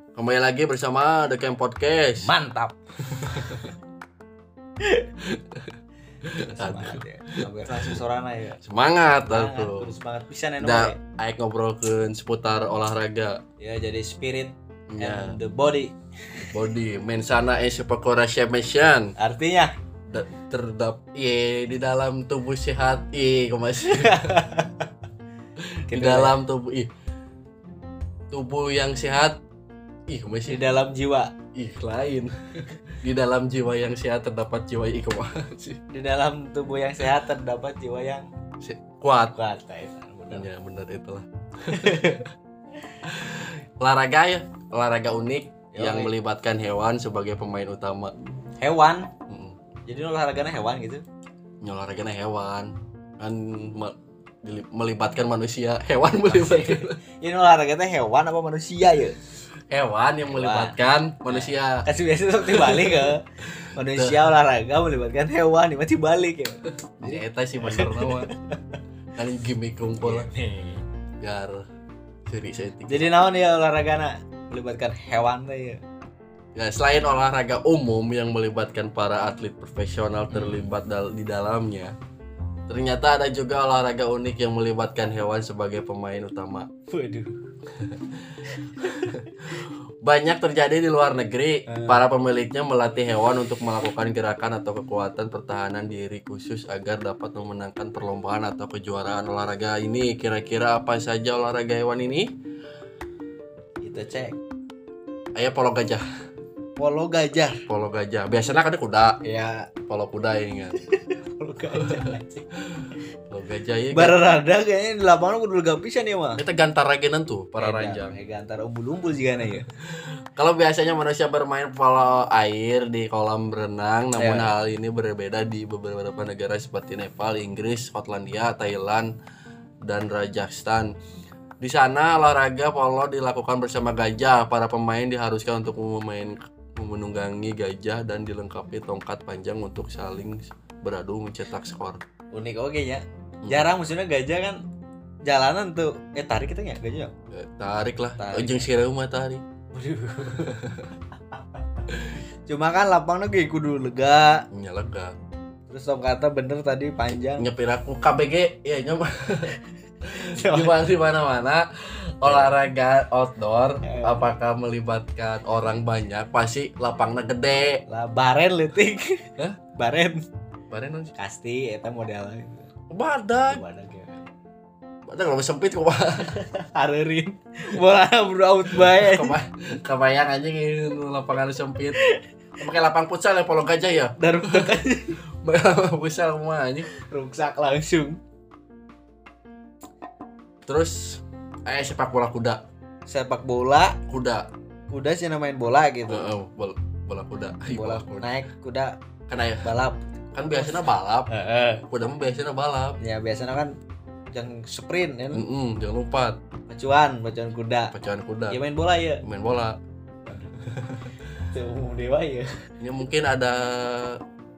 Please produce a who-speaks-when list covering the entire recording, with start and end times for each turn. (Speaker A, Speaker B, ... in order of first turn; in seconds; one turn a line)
Speaker A: 0.1-2.3
Speaker B: 2.2-2.8
Speaker A: 3.1-3.7
Speaker B: 3.3-3.7
Speaker A: 5.2-8.0
Speaker B: 6.2-8.6
Speaker A: 8.6-9.9
Speaker B: 9.2-11.0
Speaker A: 10.6-13.4
Speaker B: 13.6-16.6
Speaker A: 14.9-15.4
Speaker A: 16.5-19.1
Speaker B: 19.2-19.7
Speaker A: 20.1-24.4
Speaker B: 23.9-24.9
Speaker A: 25.6-26.9
Speaker B: 25.9-26.4
Speaker A: 28.3-29.4
Speaker A: 30.1-30.6
Speaker B: 30.5-31.3
Speaker A: 31.5-32.3
Speaker A: 33.0-35.8
Speaker B: 35.9-38.3
Speaker A: 38.6-39.4
Speaker B: 39.4-40.5
Speaker A: 40.3-42.3
Speaker B: 41.7-42.2
Speaker A: 43.0-48.1
Speaker B: 45.7-46.1
Speaker B: 48.6-49.1
Speaker A: 49.3-49.6
Speaker B: 49.9-51.0
Speaker A: 51.6-57.0
Speaker B: 56.3-59.2
Speaker A: 59.7-61.9
Speaker B: 60.2-68.8
Speaker A: 62.4-64.3
Speaker A: 67.0-68.3
Speaker A: 69.2-70.3
Speaker B: 70.0-70.8
Speaker A: 71.2-71.7
Speaker A: 72.3-73.1
Speaker B: 72.9-75.8
Speaker A: 76.5-82.0
Speaker B: 80.3-80.7
Speaker A: 82.7-86.7
Speaker B: 86.9-87.4
Speaker A: 87.8-102.3
Speaker B: 88.5-89.6
Speaker B: 91.7-92.0
Speaker B: 103.8-104.4
Speaker A: 105.3-106.0
Speaker B: 106.8-107.6
Speaker A: 107.7-109.2
Speaker B: 109.2-109.7
Speaker A: 109.9-110.8
Speaker B: 110.8-112.5
Speaker A: 111.7-112.1
Speaker A: 112.7-114.2
Speaker B: 113.9-116.4
Speaker A: 116.4-118.2
Speaker B: 117.6-119.7
Speaker A: 119.7-129.1
Speaker B: 124.2-124.5
Speaker A: 129.8-130.9
Speaker A: 131.6-142.0
Speaker B: 142.3-144.6
Speaker A: 143.4-143.7
Speaker B: 145.2-147.1
Speaker A: 147.3-149.4
Speaker B: 148.2-148.7
Speaker B: 149.7-151.9
Speaker A: 150.5-150.9
Speaker B: 152.5-154.5
Speaker A: 154.5-155.2
Speaker B: 155.7-157.5
Speaker A: 157.4-167.8
Speaker B: 160.1-160.8
Speaker B: 162.2-162.6
Speaker B: 163.8-164.3
Speaker B: 167.9-170.2
Speaker A: 170.7-171.1
Speaker B: 171.2-172.7
Speaker A: 172.9-173.6
Speaker B: 173.5-174.3
Speaker A: 175.1-176.4
Speaker B: 176.3-179.4
Speaker A: 178.7-182.0
Speaker B: 182.0-182.2
Speaker A: 182.6-184.8
Speaker B: 184.2-185.2
Speaker A: 185.4-186.9
Speaker B: 186.9-188.2
Speaker A: 190.7-192.6
Speaker B: 193.1-194.0
Speaker A: 194.1-194.5
Speaker B: 194.9-196.3
Speaker A: 196.1-198.3
Speaker B: 197.7-199.0
Speaker A: 199.3-199.7
Speaker B: 199.6-201.9
Speaker A: 200.3-201.3
Speaker A: 201.9-203.0
Speaker B: 203.0-203.8
Speaker B: 204.3-205.4
Speaker A: 205.3-206.4
Speaker B: 206.7-207.9
Speaker A: 207.9-208.6
Speaker B: 208.5-209.2
Speaker A: 209.2-209.8
Speaker B: 210.2-210.5
Speaker A: 210.7-211.1
Speaker B: 211.4-212.7
Speaker A: 212.8-214.2